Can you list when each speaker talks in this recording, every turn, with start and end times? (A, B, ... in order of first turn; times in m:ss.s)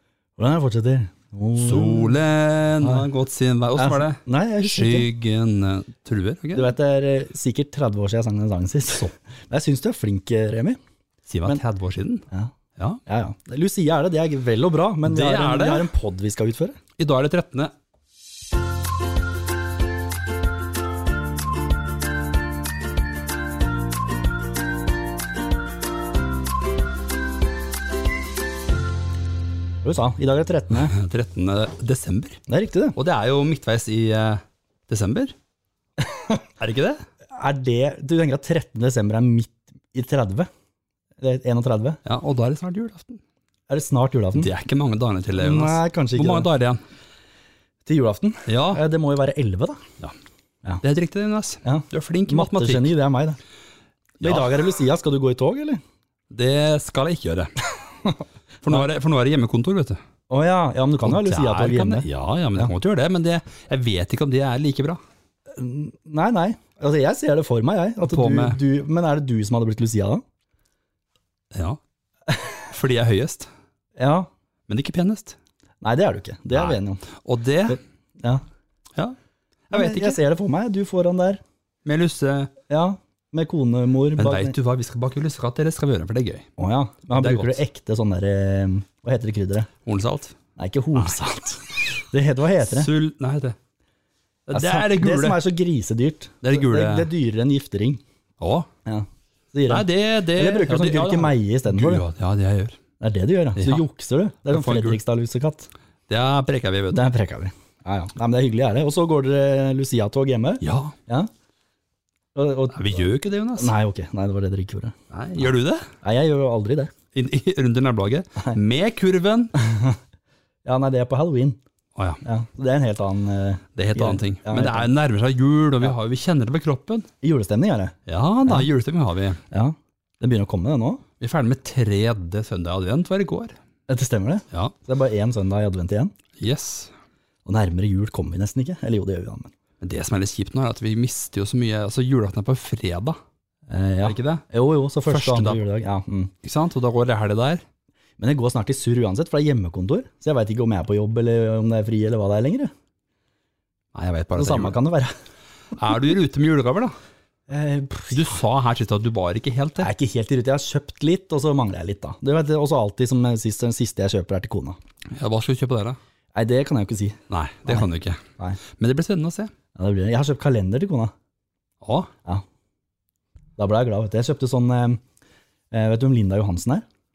0:00.4-0:02.2 A
0:01.6-0:06.7 B
0:02.8-0:03.1 A
0:03.8-0:05.1 A
0:06.6-0:10.8 A
0:11.3-0:12.2 B
0:13.0-0:16.8 A
0:15.0-0:15.9 B
0:17.0-0:17.7 B
0:29.8-0:31.0 A
0:30.8-0:32.4 B
0:32.5-0:33.0 A
0:33.0-0:35.3 B
0:36.0-0:36.4 A
0:36.6-0:37.0 B
0:37.3-0:40.5 A
0:41.2-0:42.0 A
0:42.0-0:43.2 B
0:43.7-0:44.5 A
0:44.3-0:46.8 B
0:45.4-0:46.5 A
0:47.8-0:49.8 A
0:48.5-0:48.8 B
0:50.8-0:52.9 B
0:51.6-0:53.4 A
0:54.2-0:55.8 A
0:54.2-0:54.5 B
0:56.3-0:57.5 B
0:58.0-0:58.8 A
0:58.6-1:00.0 B
1:00.3-1:02.7 A
1:01.0-1:05.0 B
1:05.5-1:10.2 A
1:08.0-1:08.6 B
1:11.5-1:11.8 B
1:12.7-1:13.5 B
1:14.0-1:14.3 A
1:14.7-1:15.4 B
1:15.8-1:17.0 A
1:16.5-1:17.8 B
1:17.7-1:18.4 A
1:19.7-1:20.2 B
1:19.7-1:21.4 A
1:21.8-1:22.5 B
1:22.7-1:24.5 A
1:24.2-1:26.5 B
1:26.6-1:29.7 A
1:27.1-1:27.6 B
1:29.8-1:30.4 B
1:30.6-1:32.9 A
1:32.6-1:33.6 B
1:34.5-1:35.4 B
1:34.5-1:38.0 A
1:36.4-1:37.1 B
1:38.4-1:38.7 B
1:38.8-1:42.0 A
1:39.7-1:42.8 B
1:43.0-1:45.7 A
1:43.6-1:43.8 B
1:44.5-1:45.0 B
1:46.1-1:47.0 B
1:46.9-1:51.3 A
1:50.6-1:51.0 B
1:52.3-1:53.0 A
1:52.7-1:53.7 B
1:53.6-1:54.9 A
1:55.1-1:55.9 B
1:56.0-1:56.9 A
1:57.1-1:59.5 B
1:59.5-2:00.0 A
2:00.6-2:01.6 A
2:02.0-2:02.2 B
2:02.2-2:04.9 A
2:03.8-2:07.1 B
2:07.2-2:08.7 A
2:08.1-2:09.4 B
2:09.5-2:11.0 A
2:11.2-2:13.5 B
2:13.9-2:16.1 A
2:16.4-2:16.9 B
2:17.4-2:19.5 A
2:19.8-2:23.2 B
2:23.7-2:26.3 A
2:24.0-2:24.4 B
2:25.1-2:25.6 B
2:26.4-2:27.6 B
2:28.2-2:32.7 A
2:33.9-2:34.8 B
2:34.3-2:35.1 A
2:35.7-2:36.9 B
2:37.5-2:38.4 A
2:38.1-2:39.9 B
2:39.8-2:44.8 A
2:45.1-2:46.0 B
2:46.3-2:47.9 A
2:47.3-2:49.5 B
2:49.8-2:51.1 A
2:51.8-2:52.1 B
2:53.6-2:55.0 A
2:55.7-2:56.8 A